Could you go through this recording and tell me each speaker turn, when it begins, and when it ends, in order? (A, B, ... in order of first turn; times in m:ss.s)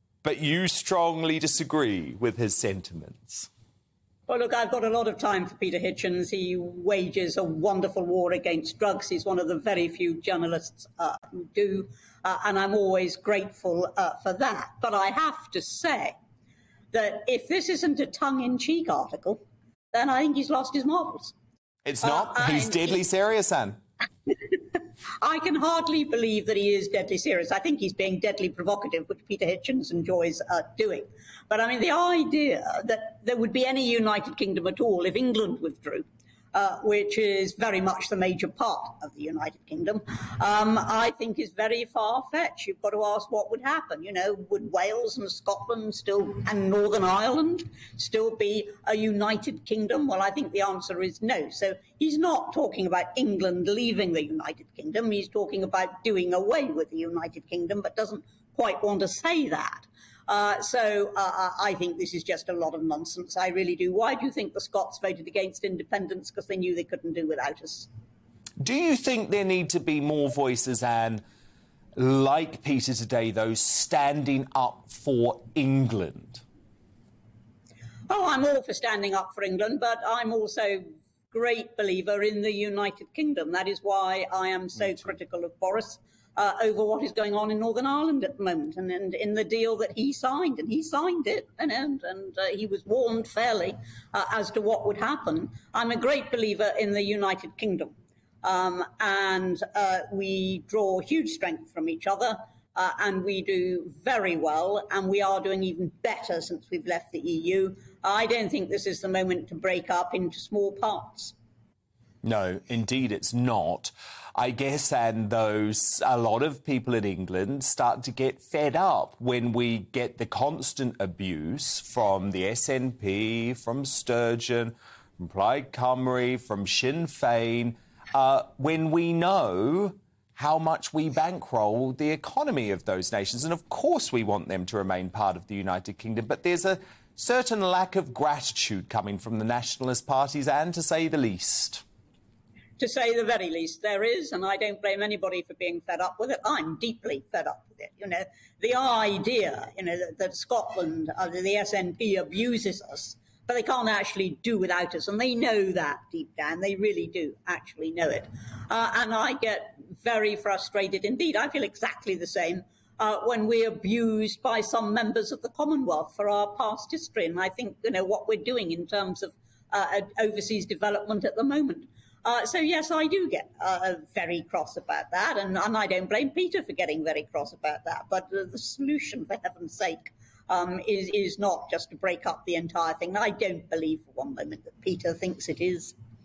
0:00.2-0:03.5 A
0:04.3-0:16.2 B
0:16.9-0:19.4 B
0:19.9-0:21.3 B
0:21.8-0:23.8 A
0:22.0-0:22.9 B
0:24.3-1:07.9 B
1:08.6-1:11.2 A
1:12.0-1:16.4 A
1:18.1-1:51.3 B
1:52.2-2:21.8 A
2:22.8-3:06.0 B